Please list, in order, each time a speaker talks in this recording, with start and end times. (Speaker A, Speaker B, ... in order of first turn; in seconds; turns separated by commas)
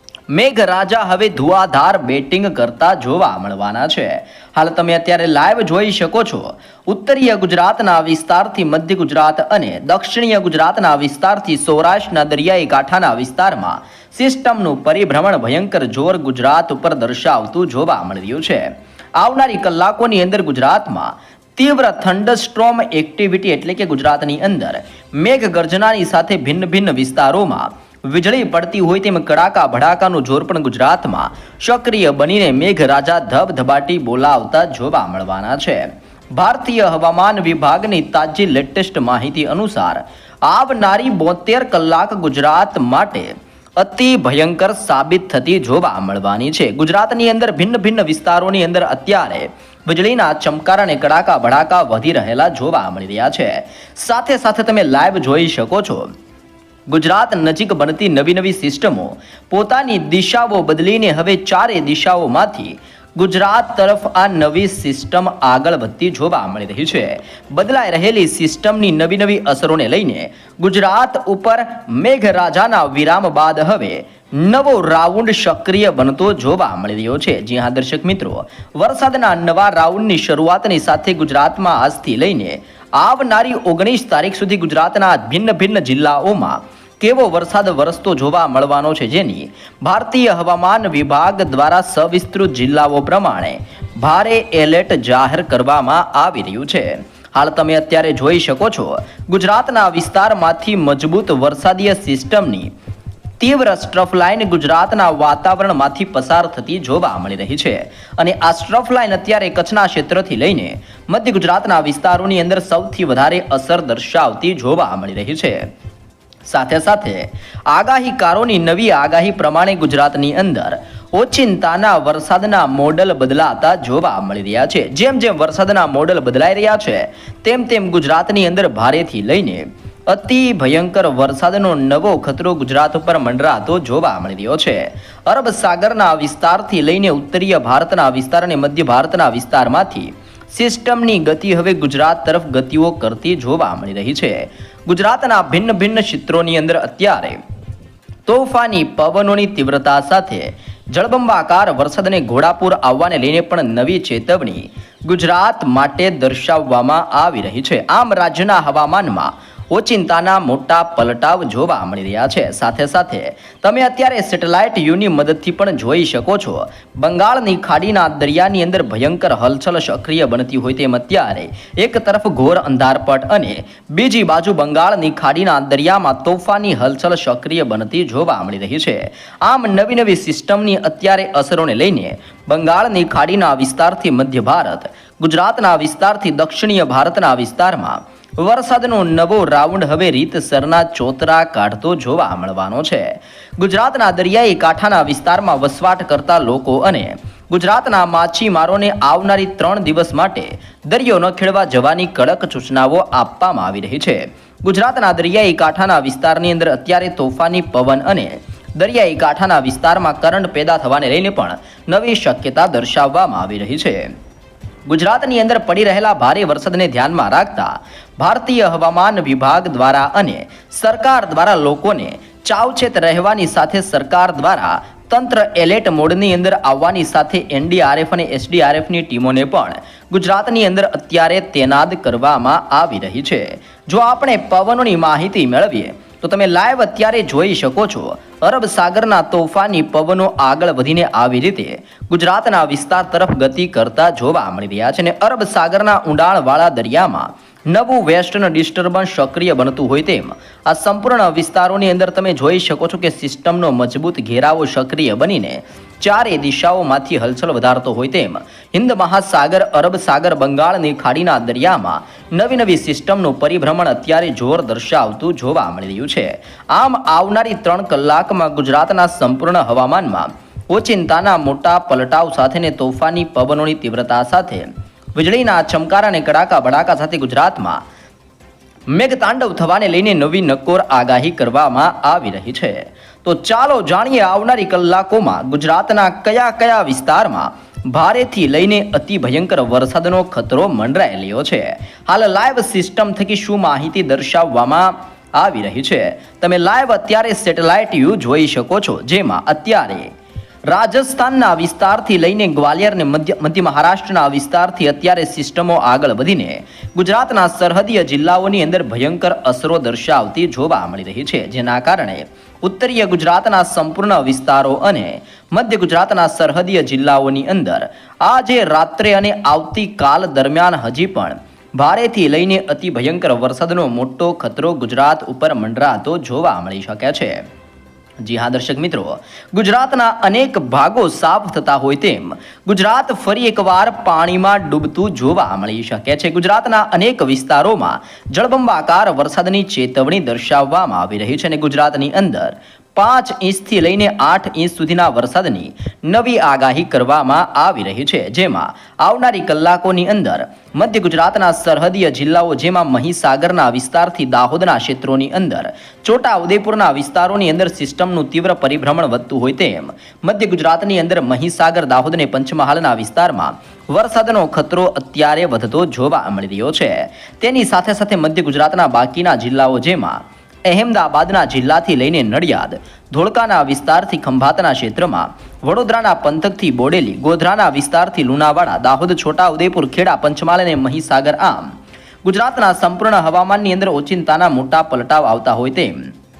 Speaker A: 0.3-18.6, Speaker A: 19.2-35.8, Speaker A: 36.3-56.1, Speaker A: 56.9-102.7, Speaker A: 103.4-115.6, Speaker A: 116.5-147.4, Speaker A: 148.3-214.1, Speaker A: 214.8-277.8, Speaker A: 278.9-300.1, Speaker A: 300.7-327.4, Speaker A: 328.2-381.7, Speaker A: 382.2-386.0